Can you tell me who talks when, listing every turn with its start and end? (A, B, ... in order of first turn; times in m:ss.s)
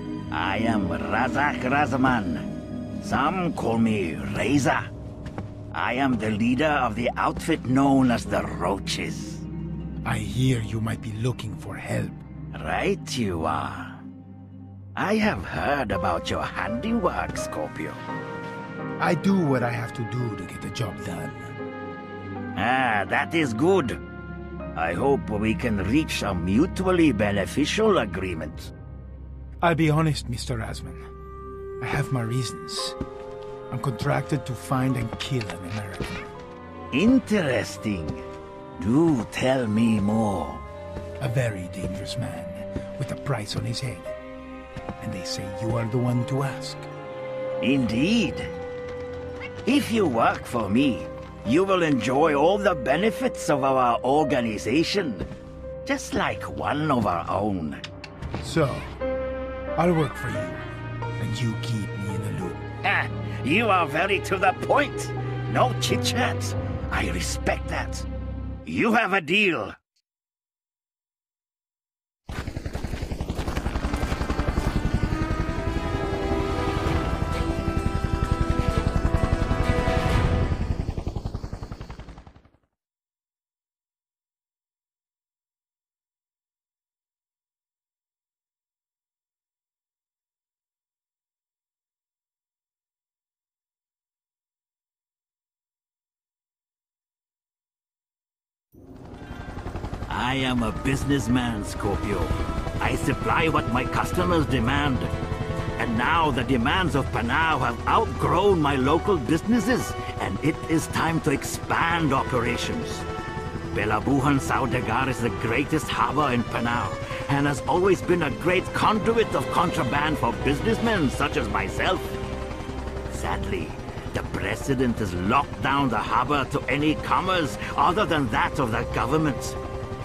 0:00.3-0:02.5 A
0:03.0-0:04.9 A
0:05.7-0:09.4 A
0:10.0-0:12.2 B
0:12.5-0:14.0 A
0:15.0-0:18.0 A
0:19.0-0:21.5 B
0:22.6-0:24.0 A
0:24.8-0:28.7 A
0:29.6-0:31.0 B
0:31.8-0:33.0 B
0:33.7-0:36.3 B
0:36.9-0:38.2 A
0:38.8-0:40.6 A
0:41.2-0:44.2 B
0:45.0-0:46.9 B
0:47.6-0:48.5 A
0:49.6-0:55.3 A
0:55.8-0:57.8 A
0:58.4-0:59.0 B
0:59.8-1:00.6 B
1:01.2-1:02.7 B
1:02.8-1:08.1 A
1:08.7-1:09.8 A
1:40.1-1:45.1 A
1:45.8-1:53.1 A
1:53.7-2:02.2 A
2:03.1-2:09.6 A